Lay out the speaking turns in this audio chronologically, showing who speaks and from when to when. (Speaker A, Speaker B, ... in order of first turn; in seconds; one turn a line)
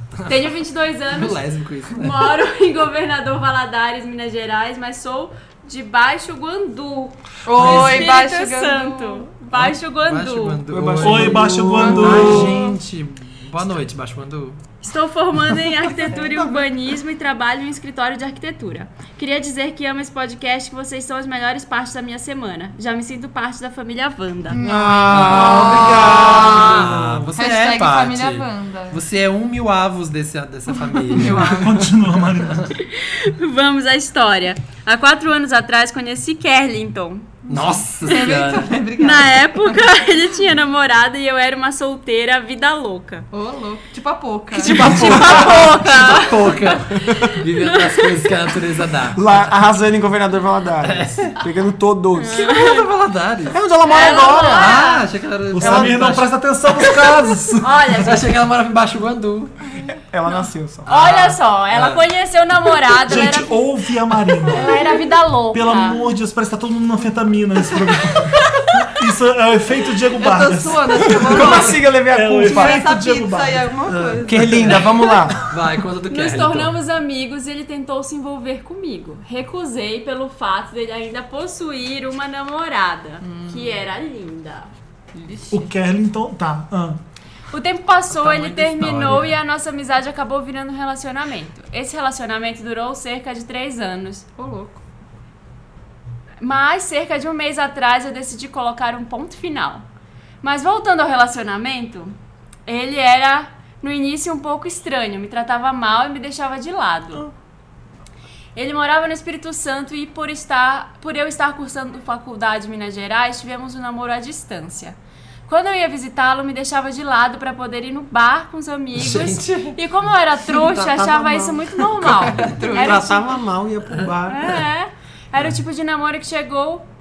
Speaker A: 0.2-0.5
Speaker B: 0.3-1.4
Speaker A: 1.1-2.4
Speaker B: 1.9-10.6
Speaker C: 7.4-9.3
Speaker D: 7.7-8.0
Speaker A: 9.5-14.6
Speaker E: 10.7-12.6
Speaker D: 11.0-12.7
Speaker C: 11.8-12.5
Speaker B: 14.8-24.6
Speaker C: 24.5-29.0
Speaker E: 24.6-27.3
Speaker A: 25.1-31.6
Speaker C: 31.1-31.9
Speaker D: 31.5-32.7
Speaker A: 32.4-32.7
Speaker B: 32.7-37.4
Speaker A: 37.5-38.8
Speaker C: 37.5-39.8
Speaker B: 39.0-43.3
Speaker C: 43.3-44.8
Speaker E: 44.5-46.0
Speaker B: 44.7-48.3
Speaker A: 44.7-49.5
Speaker E: 47.1-47.3
Speaker E: 49.1-52.5
Speaker A: 50.8-51.5
Speaker B: 52.2-52.9
Speaker A: 52.3-53.6
Speaker E: 53.5-54.8
Speaker B: 53.9-55.0
Speaker A: 54.5-56.9
Speaker D: 55.5-58.1
Speaker E: 55.6-56.2
Speaker B: 57.6-58.2
Speaker A: 58.0-59.5
Speaker E: 59.8-60.9
Speaker B: 60.8-63.5
Speaker A: 60.9-62.0
Speaker D: 63.1-64.8
Speaker B: 64.5-66.0
Speaker D: 65.5-74.8
Speaker C: 70.1-75.2
Speaker E: 71.1-72.9
Speaker E: 74.3-75.3
Speaker A: 74.6-76.7
Speaker B: 76.1-84.7
Speaker C: 83.2-83.8
Speaker C: 85.2-85.7
Speaker D: 85.5-87.0
Speaker B: 87.5-94.2
Speaker A: 88.1-89.4
Speaker C: 94.4-94.8
Speaker B: 96.4-99.8
Speaker B: 100.4-102.1
Speaker B: 102.7-107.3
Speaker B: 108.5-115.0
Speaker B: 115.5-123.3
Speaker A: 118.9-119.8
Speaker E: 120.4-124.6
Speaker C: 122.3-123.2
Speaker B: 124.3-126.8